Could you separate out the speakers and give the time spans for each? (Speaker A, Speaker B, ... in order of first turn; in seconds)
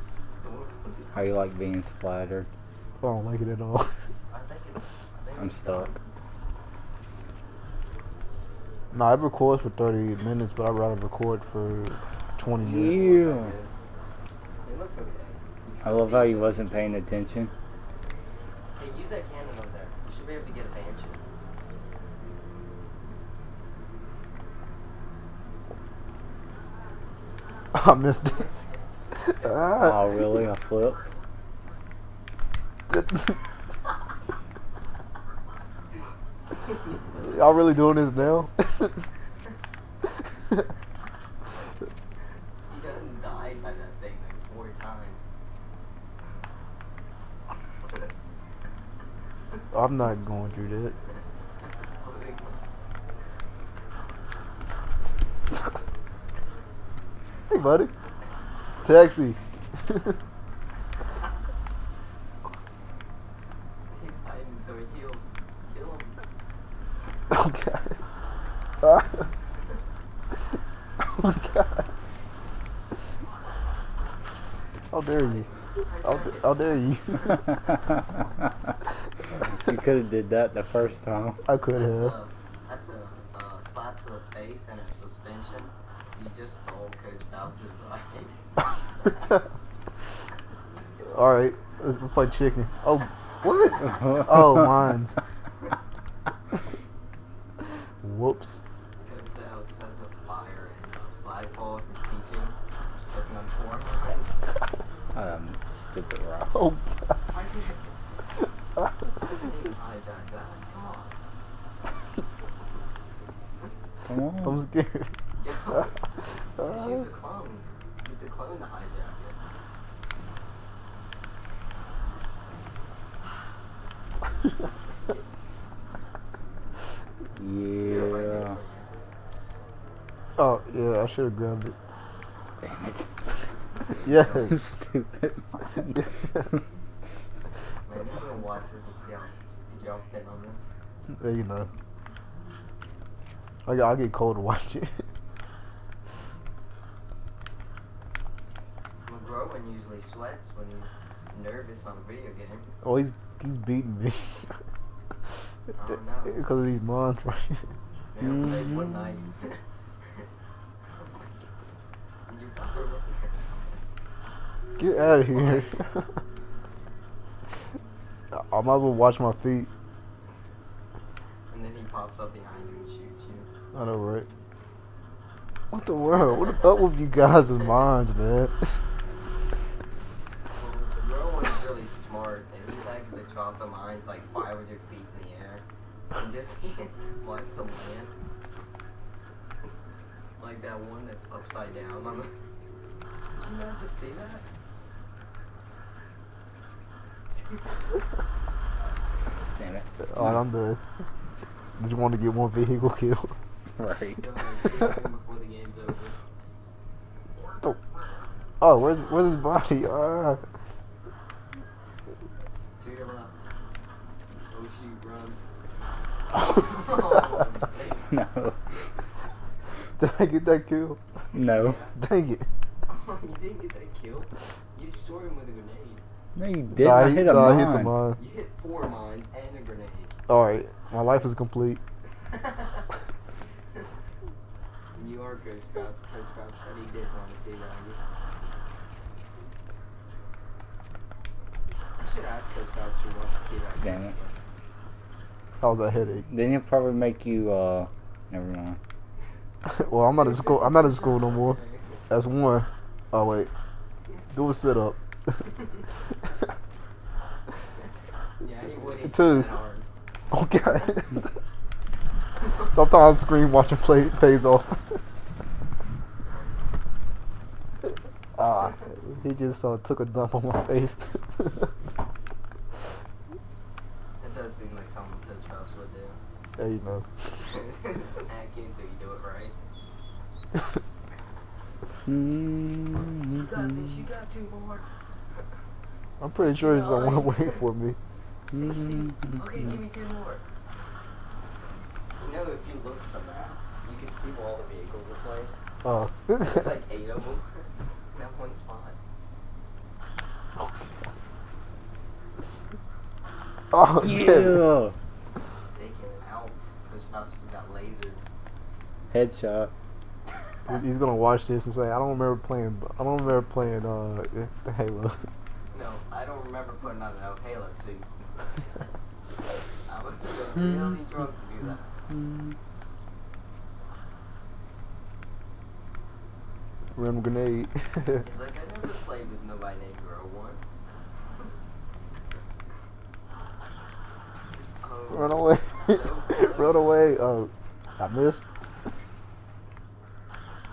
Speaker A: 0.4-1.1, 4.3-5.9, 12.9-13.7, 14.6-16.8, 18.8-21.2, 28.1-29.3, 36.7-37.4, 42.7-45.2, 51.9-52.6, 63.9-66.1, 75.2-76.5, 81.7-88.4, 99.0-104.4, 107.3-108.0, 109.2-111.1, 115.4-116.0, 116.6-119.3, 124.6-125.2, 127.8-129.1, 137.8-140.7, 149.0-152.7, 155.7-156.4, 158.1-159.6, 161.0-161.2, 162.3-163.3, 164.9-165.8, 171.5-173.5, 180.5-185.6, 186.2-188.1, 190.4-192.3, 193.3-194.4, 197.3-198.0, 204.2-206.1, 212.8-213.6, 214.5-215.4, 216.5-218.2, 221.5-221.9, 222.9-226.0, 228.2-230.1, 232.3-232.8, 234.9-238.0, 242.0-244.3, 250.2-252.0, 258.4-259.9, 274.2-276.2, 277.4-279.5, 283.3-284.8, 286.4-287.6, 288.4-290.4, 292.2-295.6, 296.4-299.0, 305.7-308.2, 315.7-318.1, 319.8-321.9, 328.2-330.6, 334.8-336.9
Speaker B: 1.1-2.5, 5.4-6.0, 12.6-13.5, 15.8-17.5, 29.5-31.0, 79.5-81.4, 93.9-94.7, 105.1-106.5, 114.0-114.6, 127.3-128.5, 132.6-133.2, 134.3-136.1, 158.2-158.8, 199.6-200.3, 203.8-204.2, 218.1-218.6, 221.3-221.8, 226.3-227.9, 243.8-244.1, 246.3-248.8, 282.1-283.5, 288.5-289.4, 303.9-304.9, 309.1-309.7, 322.1-322.5
Speaker C: 3.0-3.9, 8.9-13.2, 27.7-28.5, 29.4-30.0, 37.2-39.0, 49.7-50.9, 57.5-57.9, 58.8-60.1, 67.3-67.9, 68.8-69.1, 71.1-71.8, 74.9-75.5, 76.0-77.4, 81.5-82.1, 91.0-95.2, 98.0-98.6, 106.5-106.9, 114.4-115.1, 130.4-131.7, 134.0-134.6, 141.2-141.7, 143.7-145.0, 152.8-154.4, 156.2-157.6, 164.8-166.1, 168.3-169.7, 173.7-174.3, 175.7-178.7, 200.0-200.8, 201.8-203.3, 208.6-210.4, 220.0-221.0, 221.9-222.4, 226.7-228.2, 230.3-231.8, 245.6-246.2, 249.6-251.6, 252.1-253.5, 254.3-255.0, 259.0-259.5, 260.3-261.2, 262.7-264.9, 268.3-271.7, 276.6-277.1, 286.2-288.0, 295.8-296.6, 303.7-304.6, 310.7-315.2, 326.9-328.2, 335.1-338.4